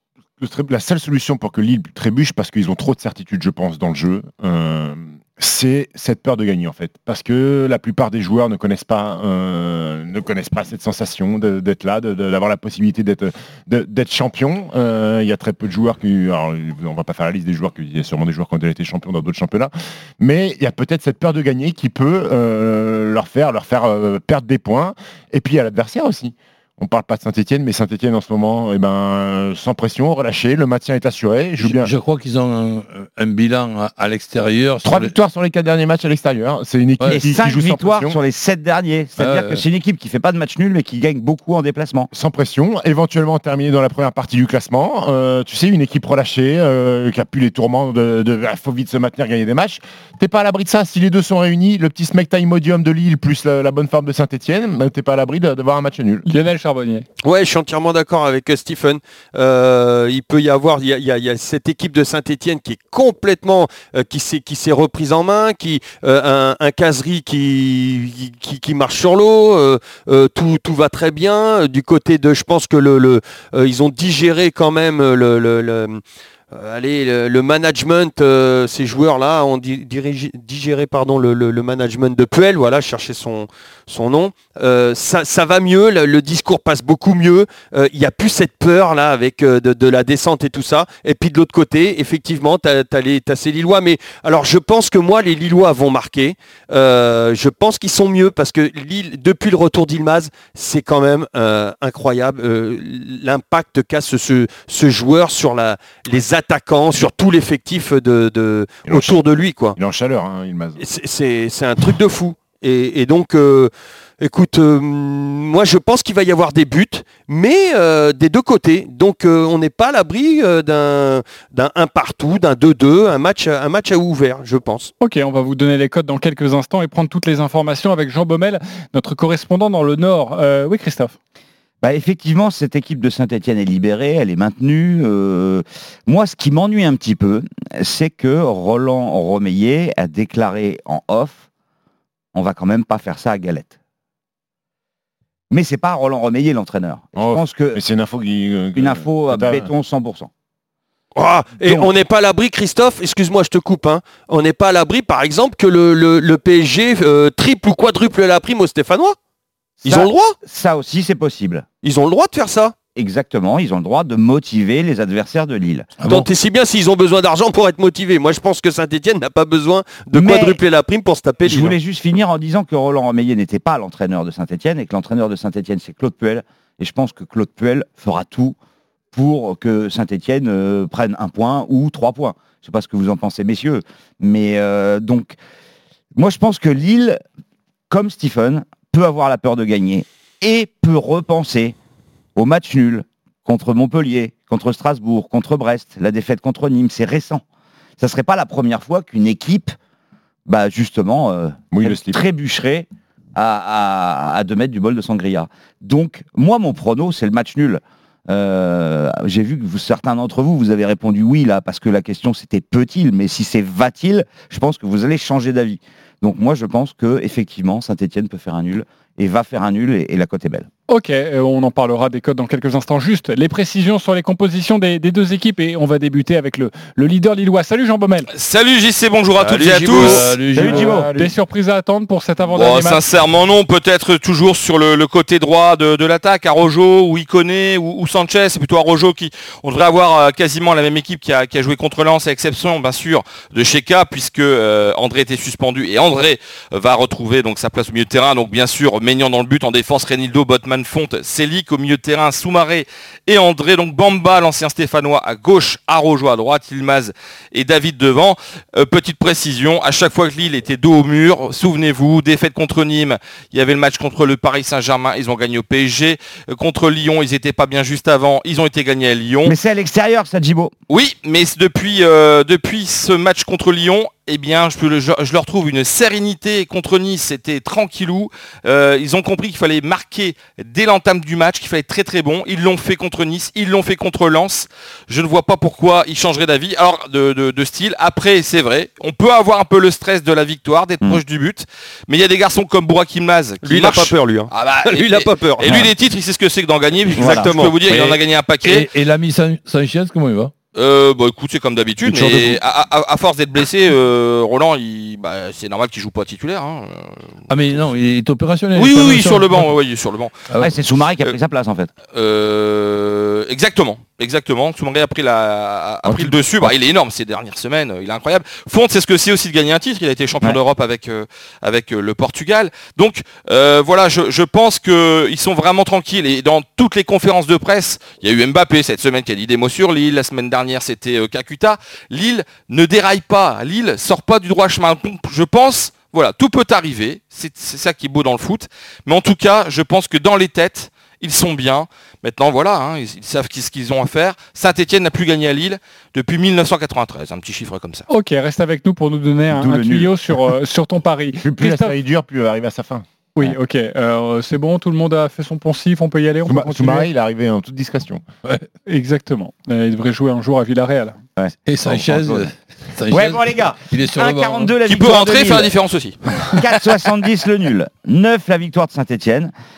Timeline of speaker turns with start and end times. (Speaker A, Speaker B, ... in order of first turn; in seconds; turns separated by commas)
Speaker A: 0.4-31.9, Speaker B: 31.6-35.1, Speaker A: 34.8-38.2, Speaker C: 37.1-42.1, Speaker B: 39.2-39.6, Speaker A: 42.1-56.3, Speaker D: 56.3-57.1, Speaker E: 57.2-76.0, Speaker E: 76.5-109.8, Speaker A: 108.9-110.8, Speaker E: 110.8-124.9, Speaker D: 125.0-131.2, Speaker C: 131.8-141.4, Speaker C: 142.3-143.8, Speaker C: 145.5-147.8, Speaker A: 147.2-149.7, Speaker C: 148.8-150.3, Speaker E: 151.2-159.2, Speaker C: 159.8-161.7, Speaker E: 159.8-160.3, Speaker E: 161.8-162.8, Speaker C: 163.0-165.9, Speaker B: 166.0-166.3, Speaker E: 166.1-171.8, Speaker C: 170.1-170.6, Speaker C: 171.4-178.6, Speaker C: 179.1-185.4, Speaker C: 186.2-187.2, Speaker C: 187.9-191.8, Speaker C: 192.4-197.4, Speaker C: 198.0-199.8, Speaker C: 200.5-220.7, Speaker A: 201.7-202.2, Speaker D: 220.9-228.3, Speaker F: 228.3-230.3, Speaker B: 229.5-231.1, Speaker A: 229.9-231.3, Speaker C: 230.6-231.1, Speaker D: 230.6-233.0, Speaker F: 232.5-269.5, Speaker C: 269.4-270.7, Speaker F: 270.9-298.9, Speaker E: 293.6-295.9, Speaker C: 295.6-295.9, Speaker E: 297.1-297.8, Speaker C: 297.2-297.5, Speaker B: 297.9-300.5, Speaker F: 300.7-307.9, Speaker A: 302.1-302.6, Speaker B: 307.5-309.7, Speaker F: 308.8-310.6, Speaker C: 310.6-311.9, Speaker F: 312.1-348.1, Speaker A: 316.1-316.8, Speaker D: 348.1-351.9, Speaker C: 349.5-350.1, Speaker A: 351.4-353.1, Speaker D: 353.4-357.1, Speaker A: 356.5-358.2, Speaker D: 358.9-361.2, Speaker C: 361.4-362.5, Speaker B: 361.7-364.8, Speaker C: 363.1-365.7, Speaker F: 364.8-366.2, Speaker C: 366.5-369.5